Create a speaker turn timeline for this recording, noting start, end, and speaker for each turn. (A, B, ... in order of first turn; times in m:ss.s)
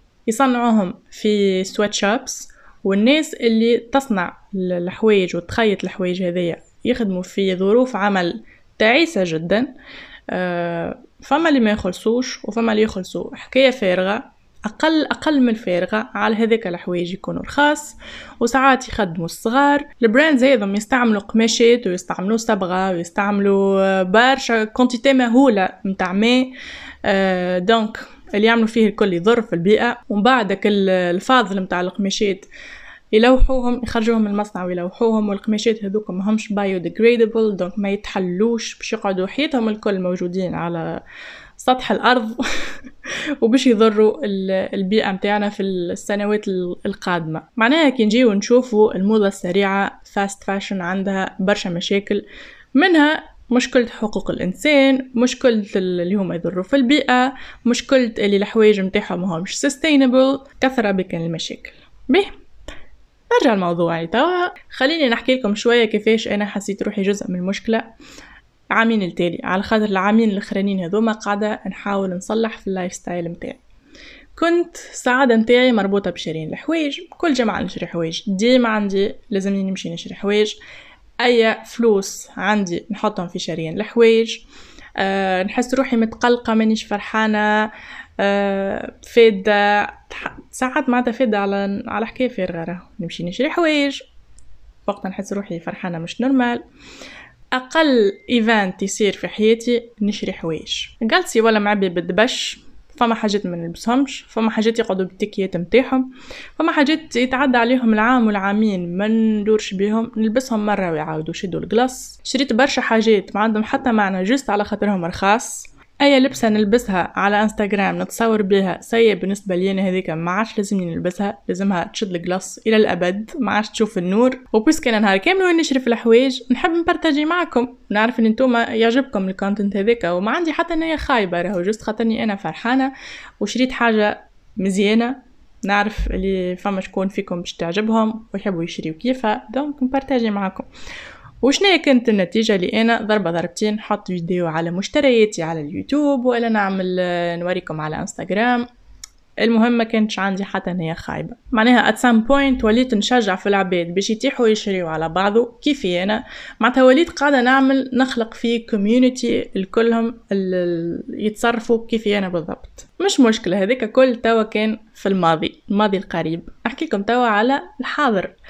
0:00.3-0:09.7 A
0:10.3-0:32.5 A
0:33.1-0:41.0 A
0:41.6-1:02.3 A
1:03.3-1:07.9 A
1:08.7-1:13.6 A
1:14.4-1:20.6 A
1:21.2-1:24.5 A
1:25.0-1:34.1 A
1:34.9-1:36.6 A
1:37.5-2:20.7 A
2:21.4-2:28.7 A
2:29.4-2:48.4 A